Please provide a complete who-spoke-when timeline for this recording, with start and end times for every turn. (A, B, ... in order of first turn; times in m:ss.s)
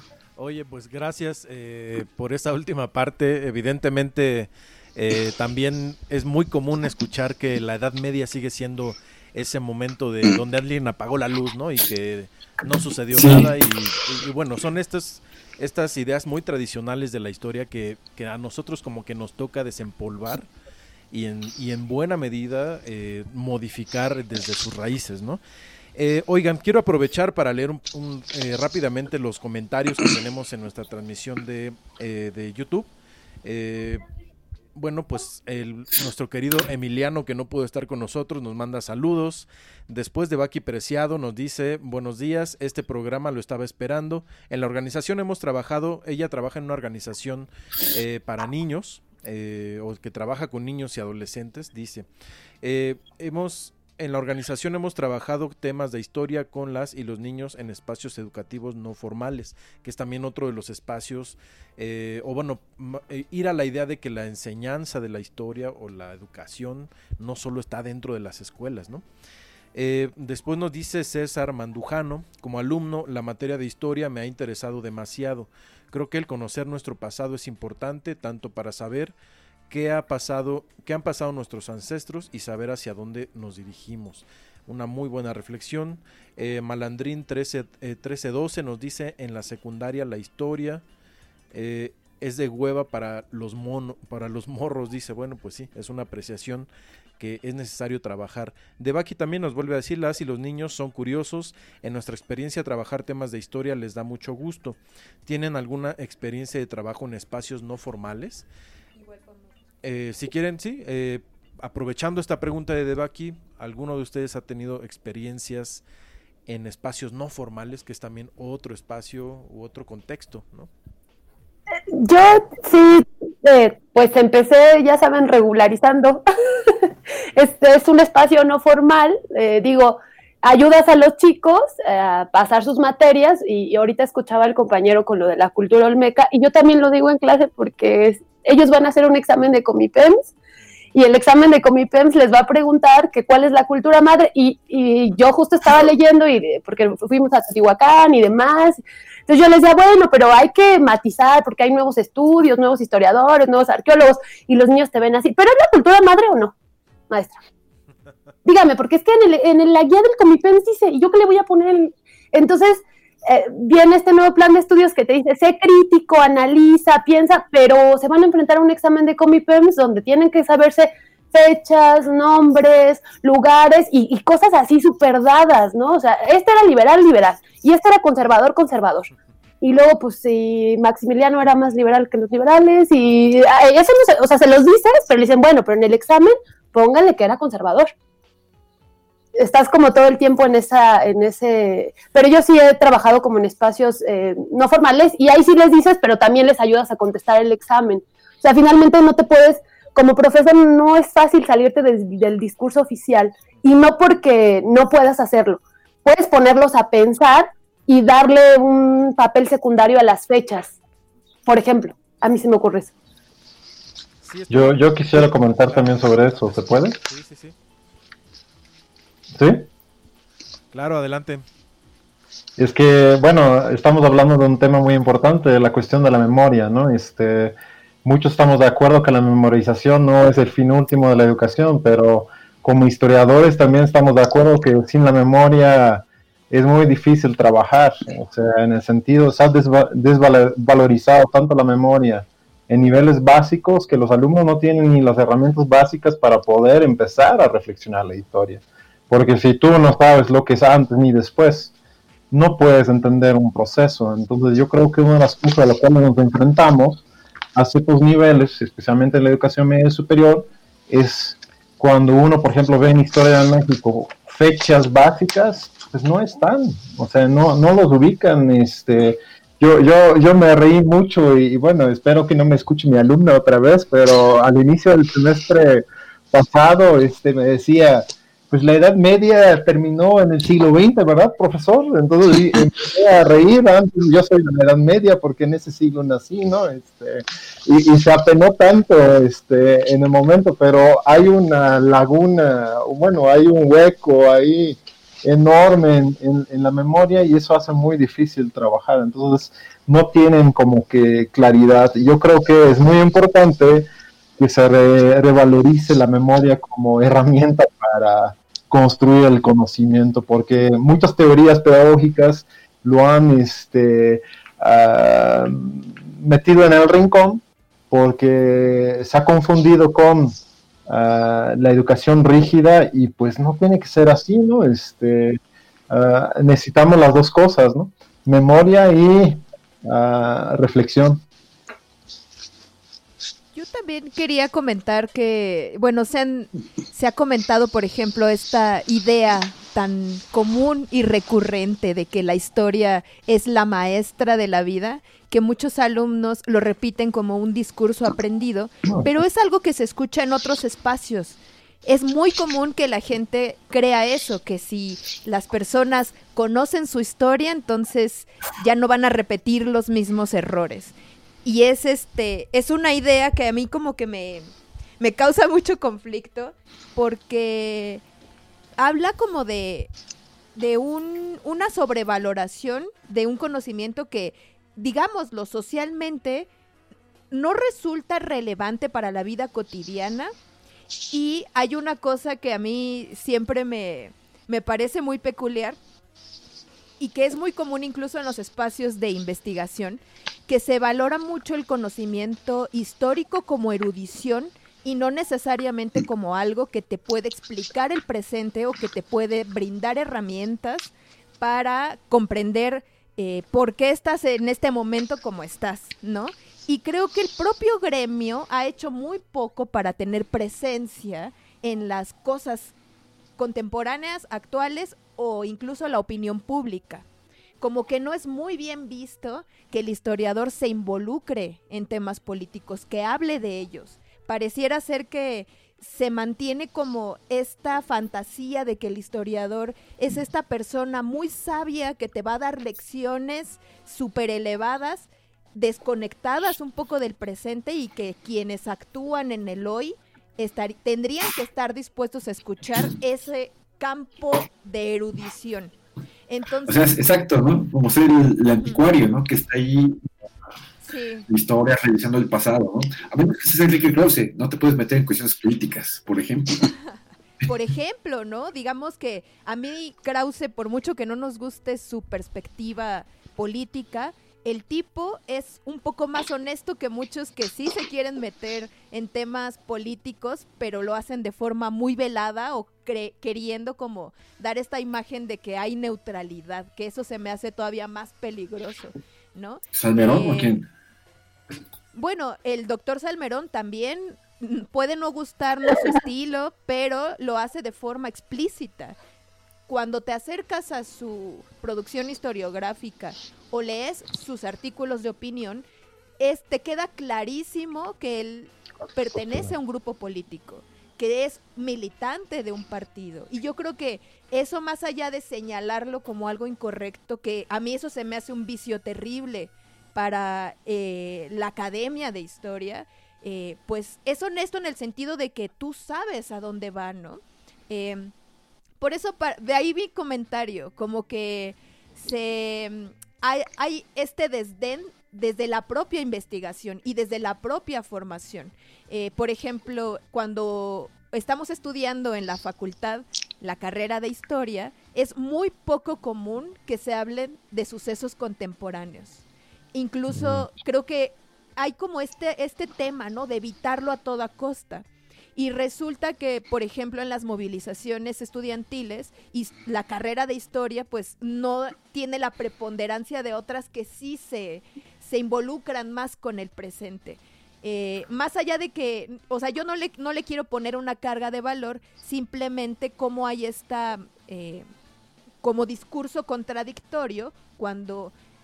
0:00.4-0:20.5 A
0:13.1-0:13.5 B
0:21.1-0:25.4 A
0:26.0-0:32.9 A
0:33.4-0:34.0 A
0:34.8-0:52.1 A
0:52.6-1:09.0 A
1:09.7-1:19.1 A
1:19.7-1:30.8 A
1:31.5-1:36.7 A
1:37.2-1:48.4 A
1:49.0-1:49.4 C
1:49.8-1:55.8 A
1:56.5-2:00.7 A
2:02.0-2:20.3 D
2:21.0-2:36.5 D
2:37.1-2:37.4 D
2:38.4-2:59.1 D
2:59.6-3:07.9 D
3:09.4-3:30.8 D
3:31.4-3:32.9 D
3:34.2-3:35.9 A
3:34.5-3:37.0 E
3:36.5-3:37.6 A
3:39.3-3:39.7 E
3:40.7-3:41.4 A
3:42.6-4:11.7 E
4:12.3-4:17.0 E
4:17.6-5:03.9 E
5:04.4-5:25.4 E
5:25.9-5:31.2 E
5:33.5-6:00.9 C
5:48.9-5:49.1 E
6:01.4-6:08.0 C
6:08.8-6:09.9 C
6:10.6-6:16.5 C
6:17.3-6:20.3 C
6:21.1-6:25.8 C
6:27.0-6:52.7 C
6:53.4-6:57.0 C
6:57.6-7:25.7 C
7:26.3-7:27.0 C
7:26.7-7:30.0 B
7:30.8-7:31.3 C
7:31.3-7:36.7 B
7:37.4-8:00.6 C
7:59.7-8:00.6 B
8:01.9-8:09.0 C
8:09.7-8:15.6 C
8:16.2-8:38.1 C
8:38.8-9:04.8 C
9:05.4-9:24.7 C
9:25.4-9:28.1 C